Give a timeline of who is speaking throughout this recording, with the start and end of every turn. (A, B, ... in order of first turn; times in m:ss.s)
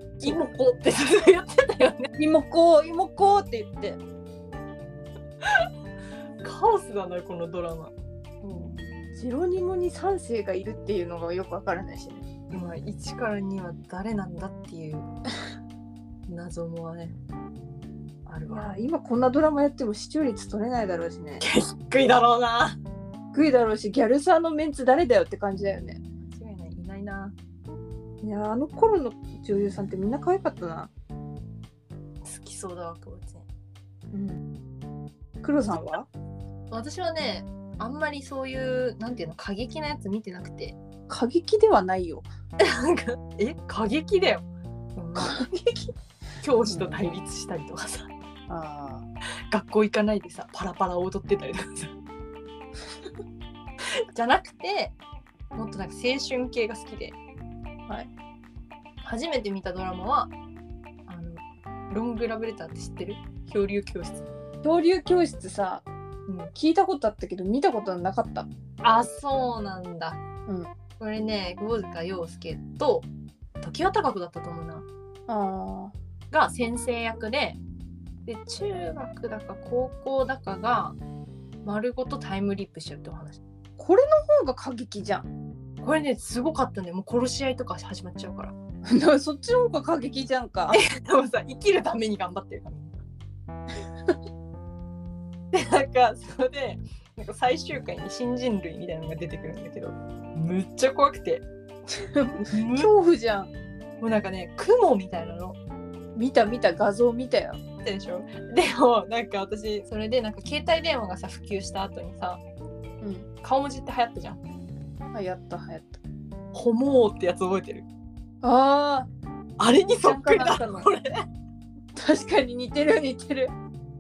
0:00.2-0:02.1 A
0:02.2-0:04.0 B
0:05.4-0:05.7 A
0:06.4-0:07.9 A
0:08.4-0:12.3 B
0:12.5-0:15.1 A
0:16.3-0:17.2 A
0:18.2-0:18.7 A
0:18.5-0:21.4 B
0:21.4-0:22.8 A
0:23.3-0:26.0 B
0:26.2-0:27.3 A
0:28.2-0:30.9 B
0:32.2-0:33.4 A
0:34.1-0:34.4 B
0:35.4-0:36.1 B
0:36.7-0:40.8 A
0:41.1-0:42.3 B
0:42.6-0:45.4 A
0:45.2-0:45.9 B
0:46.4-0:48.1 A
0:46.6-0:47.1 B
0:48.5-0:49.0 B
0:49.5-0:51.9 A
0:54.1-0:55.0 A
0:55.5-0:57.2 A
0:59.0-1:00.3 A
1:01.1-1:04.2 A
1:04.6-1:05.8 B
1:06.5-1:08.5 B
1:08.8-1:10.2 A
1:11.0-1:13.1 A
1:13.6-1:14.9 A
1:15.3-1:15.9 B
1:16.3-1:17.6 A
1:18.2-1:21.0 A
1:21.6-1:23.4 A
1:23.8-1:25.3 B
1:25.8-1:28.5 A
1:28.8-1:30.8 B
1:30.7-1:33.0 A
1:35.5-1:41.4 A
1:42.0-1:43.5 B
1:42.4-1:42.9 A
1:44.0-1:45.6 A
1:46.2-1:47.6 B
1:47.8-1:52.4 A
1:53.0-1:53.3 B
1:53.4-1:54.4 A
1:55.1-1:56.0 B
1:56.5-1:57.9 A
1:58.4-1:59.1 B
1:59.6-2:01.2 A
2:00.0-2:00.9 B
2:01.9-2:03.5 B